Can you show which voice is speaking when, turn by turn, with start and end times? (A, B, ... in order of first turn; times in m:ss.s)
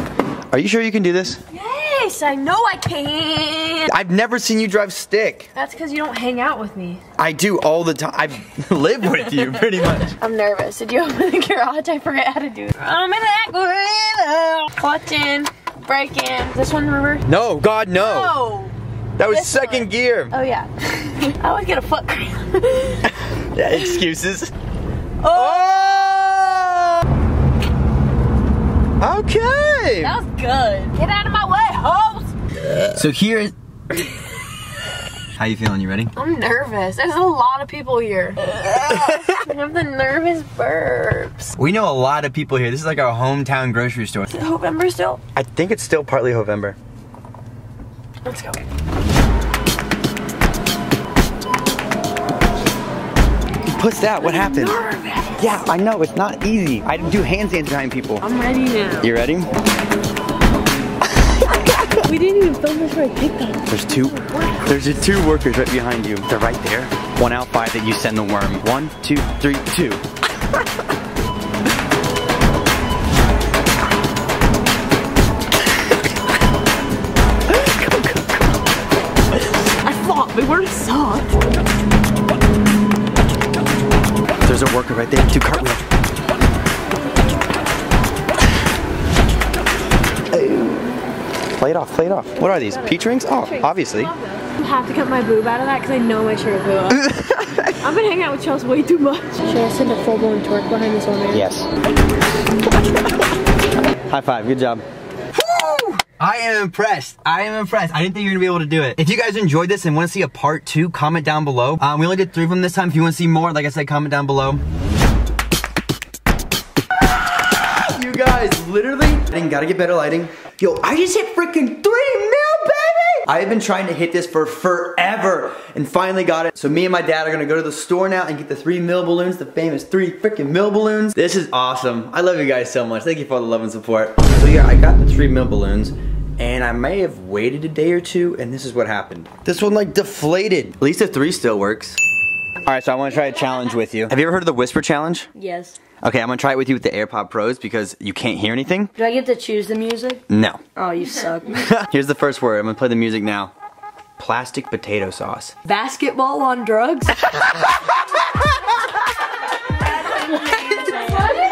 0:00.5-0:01.4 A
0:01.5-0:03.9 B
0:03.9-0:05.5 A
0:05.5-0:07.0 B
0:07.2-0:10.1 A
0:10.0-0:17.2 B
0:17.3-0:18.4 A
0:17.9-0:18.7 B
0:19.2-0:20.3 A
0:19.3-0:23.1 B
0:23.1-0:24.5 A
0:25.2-0:25.8 B
0:25.3-0:27.0 A
0:29.0-0:30.1 A
0:30.0-0:32.3 B
0:32.9-0:33.5 A
0:35.4-0:36.1 A
0:36.2-0:41.5 B
0:41.6-0:44.3 A
0:44.3-0:45.2 B
0:45.3-0:46.8 A
0:48.2-0:48.6 B
0:53.6-0:54.8 A
0:54.2-0:55.5 B
0:55.4-0:58.2 A
0:58.2-0:59.1 B
0:59.0-0:59.5 A
1:01.3-1:01.9 A
1:01.9-1:04.8 B
1:03.7-1:10.0 A
1:17.5-1:18.5 A
1:19.8-1:21.4 B
1:24.4-1:25.8 A
1:30.3-1:30.9 A
1:31.6-1:34.1 A
1:32.4-1:37.1 B
1:36.9-1:37.8 A
1:37.8-1:41.4 B
1:41.3-1:41.7 A
1:44.1-1:44.8 A
1:45.3-1:54.6 A
1:57.4-2:22.0 A
2:22.6-2:25.3 A
2:25.3-2:25.7 C
2:26.0-2:28.9 A
2:29.0-2:30.2 C
2:30.3-2:30.6 A
2:30.8-2:31.6 C
2:31.5-2:33.5 A
2:34.2-2:35.5 A
2:35.6-2:37.2 C
2:37.3-2:37.9 A
2:40.0-2:41.4 B